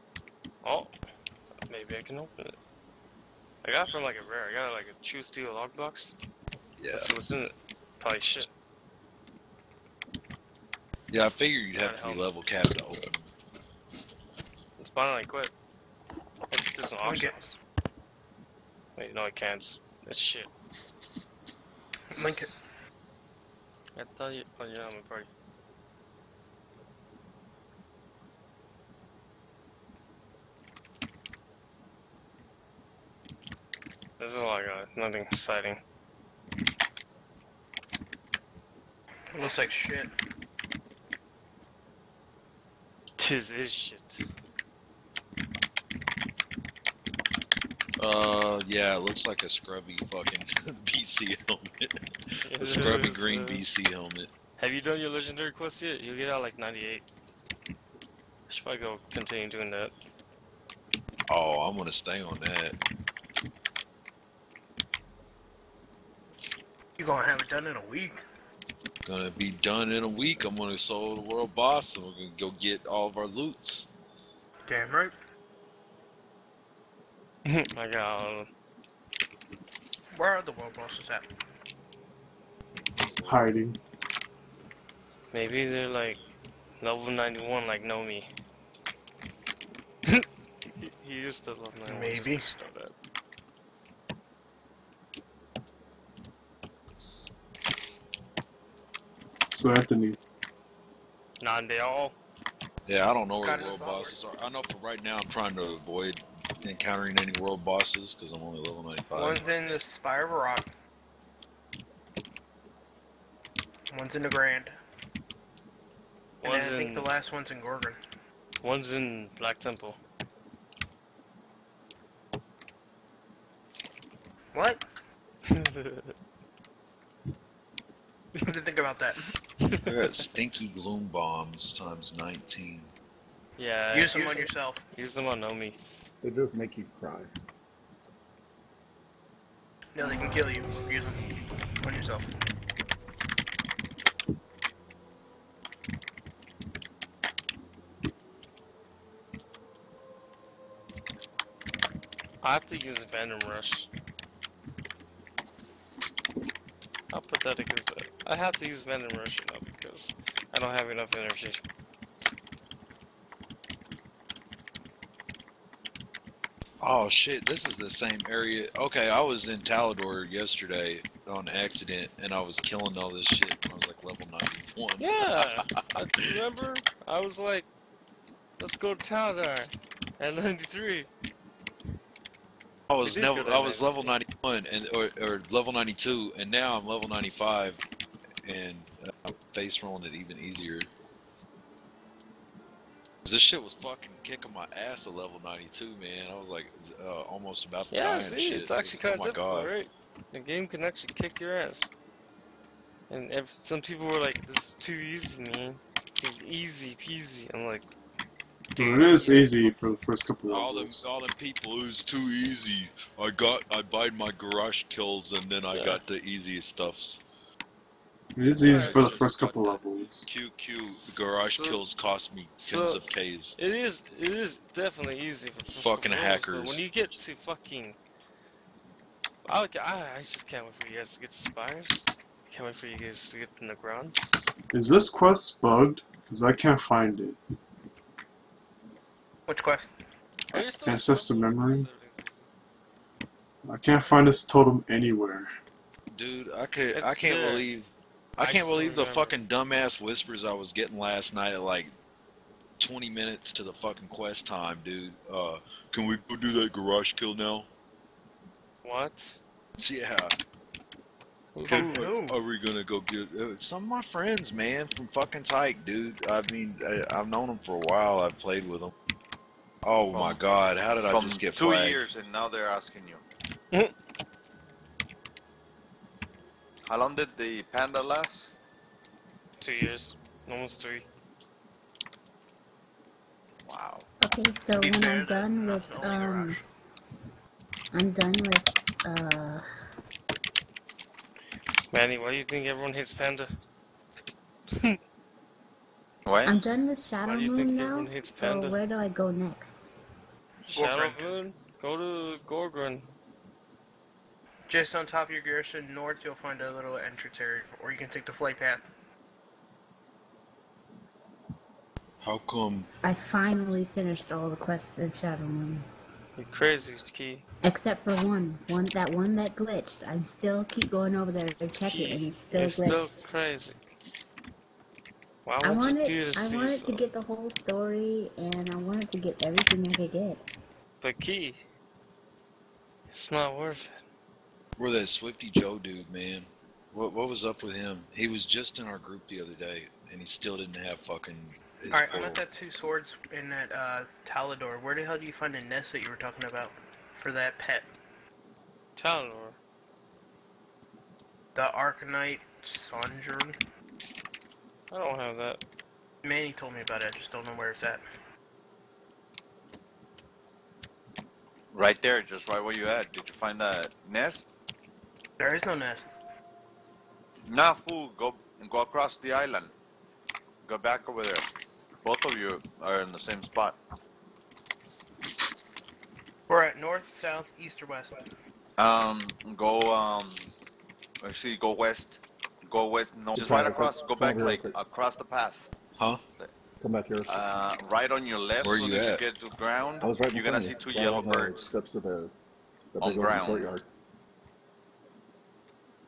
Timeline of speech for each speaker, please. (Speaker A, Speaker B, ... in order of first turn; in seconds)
Speaker A: 0.6-0.9, 1.7-2.5, 3.6-6.1, 6.9-8.5, 11.7-12.3, 14.8-15.5, 16.5-17.4, 18.9-20.5, 24.0-25.3, 34.2-35.8, 43.2-44.2, 52.5-53.6, 54.6-57.0, 58.5-59.9, 77.4-78.5, 85.3-86.2, 86.8-88.3, 90.1-92.9, 101.4-102.2, 116.4-117.1, 118.6-120.0, 125.5-126.1, 129.6-129.9, 133.6-135.8, 152.4-153.9, 157.1-161.6, 175.0-177.7, 178.6-181.1, 183.0-184.1, 197.9-201.9, 203.1-207.9, 208.8-209.7, 215.7-216.0, 218.6-219.1, 221.4-221.8, 222.6-223.0, 223.6-227.9, 229.5-234.2, 240.5-242.5, 246.9-247.7, 248.4-249.3, 258.8-259.4, 279.6-281.1, 291.9-293.5, 297.2-298.8, 300.6-303.0, 316.4-317.4, 321.9-323.8, 325.4-327.0, 331.0-331.6, 333.1-333.9, 348.9-349.6, 354.9-355.6
Speaker B: 6.8-7.1, 11.1-13.2, 48.0-51.9, 52.6-54.3, 61.3-62.8, 69.0-73.9, 83.0-83.4, 102.8-109.6, 129.8-132.9, 166.8-175.8, 182.9-187.8, 188.4-190.9, 193.2-199.7, 210.4-217.2, 218.6-223.6, 225.8-226.8, 246.1-251.9, 252.8-257.7, 259.8-260.3, 261.6-268.9, 269.8-272.1, 312.2-312.9, 334.8-342.4, 388.6-389.3
Speaker C: 17.0-17.4, 22.1-22.5, 39.3-40.1, 67.0-68.2, 74.7-75.1, 80.1-81.2, 91.9-92.5, 103.4-104.1, 109.1-110.7, 113.9-114.7, 116.4-118.0, 124.5-124.8, 128.4-129.2, 133.9-134.8, 139.9-141.2, 141.8-142.3, 239.5-239.9, 261.6-262.4, 284.8-286.6, 300.7-301.4, 304.7-308.8, 341.9-347.9, 351.5-353.6, 356.2-358.0, 365.4-366.1, 376.5-378.2
Speaker D: 83.2-83.8, 99.5-100.2, 208.8-211.0, 218.3-220.3, 234.7-237.4, 240.6-241.9, 243.6-245.5
Speaker E: 136.2-137.3, 383.4-384.8, 386.8-387.4, 390.0-392.3, 392.9-393.8
Speaker F: 270.1-270.4, 270.9-273.2, 276.8-278.5, 283.6-284.0, 296.2-296.7, 361.7-364.5, 367.4-369.7, 370.6-371.4, 372.0-373.8, 378.8-380.5, 381.2-385.7, 387.2-391.6, 393.0-393.7
Speaker G: 284.2-286.6, 287.9-289.6, 296.4-299.9, 313.0-315.9, 317.6-323.1, 325.6-330.4